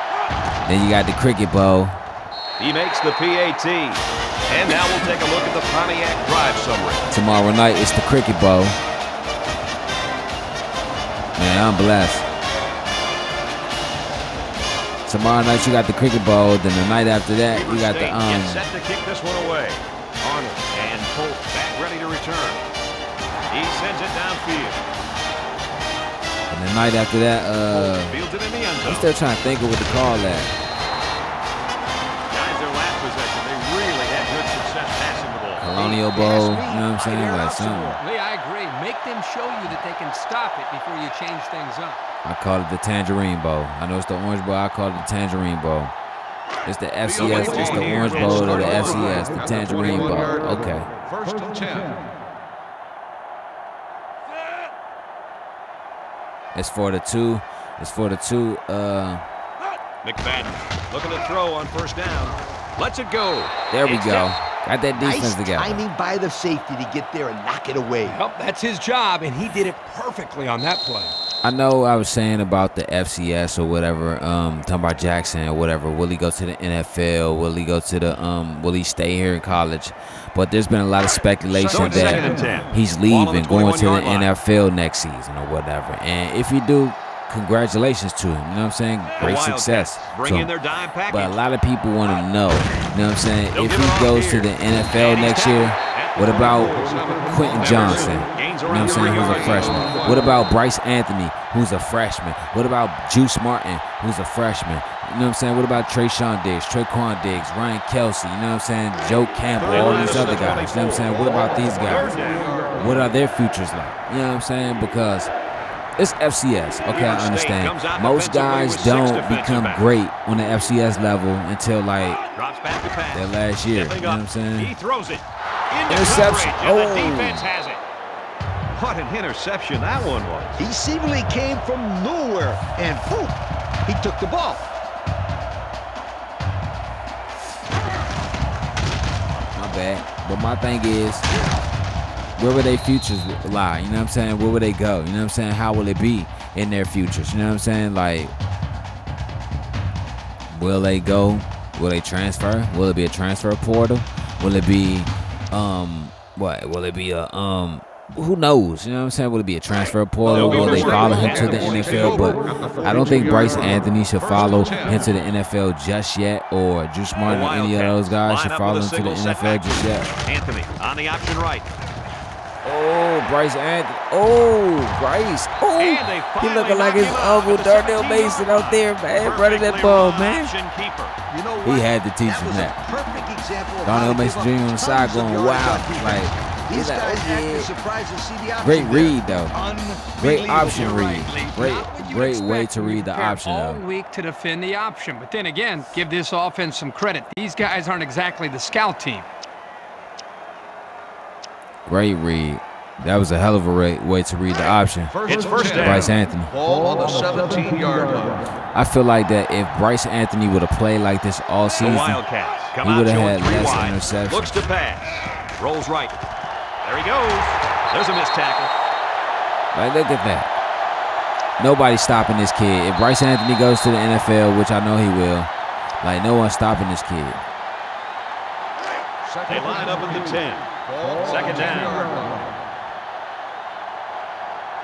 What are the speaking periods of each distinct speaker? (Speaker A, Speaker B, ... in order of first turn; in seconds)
Speaker A: 0.6-2.0, 7.1-8.8, 11.3-12.2, 15.1-18.6, 26.5-28.2, 28.8-30.5, 35.6-38.0, 42.2-45.9, 46.6-50.9, 56.5-59.2, 63.7-65.8, 71.4-90.5, 91.1-112.1, 112.8-115.3, 116.0-122.2, 123.1-124.7, 125.9-127.5, 139.5-141.2, 142.4-148.3, 150.5-170.1, 172.6-180.5, 181.6-182.8, 183.8-187.7, 188.6-189.6, 190.2-193.8, 201.8-206.5, 208.7-212.2, 212.8-214.6, 219.7-220.5, 221.6-225.5, 226.0-227.4
Speaker B: 2.6-7.1, 17.5-22.6, 23.5-24.8, 27.7-29.1, 32.3-35.7, 47.1-49.1, 60.0-64.3, 81.6-84.3, 89.2-91.4, 93.5-100.2, 109.6-112.5, 116.9-119.8, 122.3-127.8, 128.7-130.6, 160.3-162.4, 164.6-165.1, 167.2-171.7, 175.8-181.2, 190.5-191.5, 205.2-206.1, 211.8-216.2, 216.8-218.7, 229.5-230.7, 231.2-232.0
Speaker C: 35.7-38.0, 65.0-68.2, 130.6-134.7, 181.3-191.1
Speaker D: 38.0-42.1, 68.0-71.2, 191.4-199.3
Speaker E: 47.0-52.0, 81.5-82.7, 96.2-100.3, 109.6-113.1, 160.2-165.1, 205.1-208.5, 229.2-232.5